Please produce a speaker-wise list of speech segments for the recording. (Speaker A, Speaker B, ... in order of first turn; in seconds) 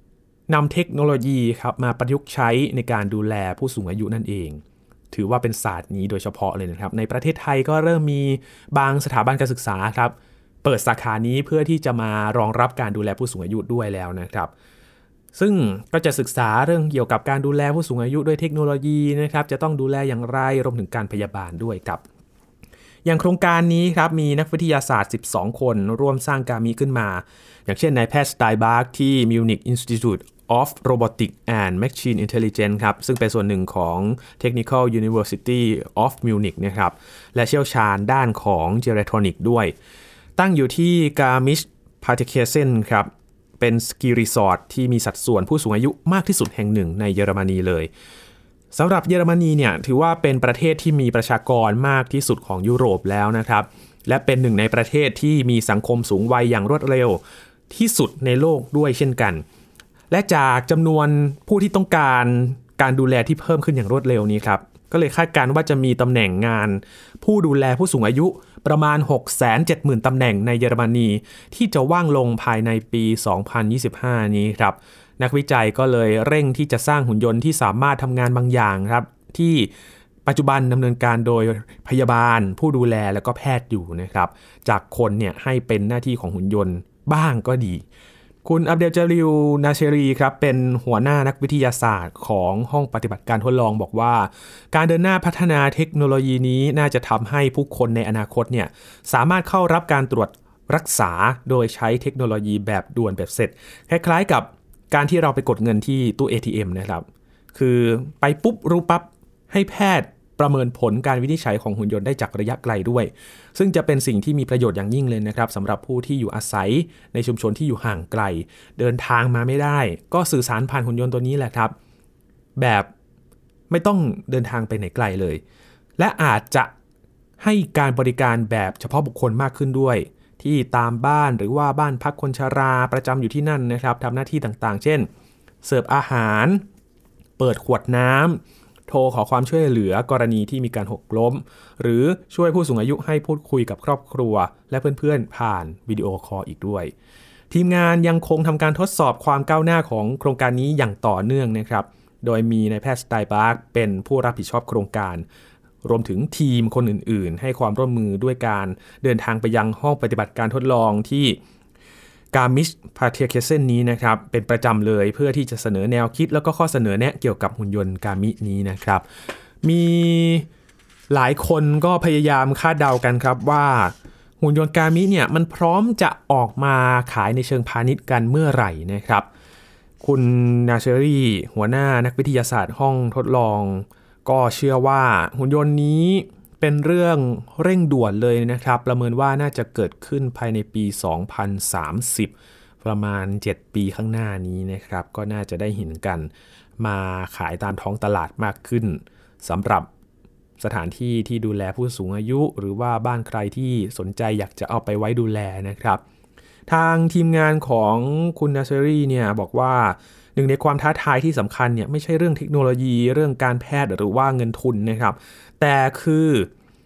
Speaker A: 0.5-14.5, 15.3-22.0, 23.0-39.7, 40.4-47.9, 48.7-57.2, 57.7-59.4, 60.1-79.7, 80.2-87.8, 88.4-121.7, 122.6-122.9, 123.7-125.4, 126.0-126.7, 127.4-135.1, 135.6-136.6, 137.4-146.9, 147.5-155.2, 155.8-161.4, 162.3-169.0, 169.6-170.5, 171.1-179.3, 180.0-199.9, 200.6-206.0, 206.7-216.5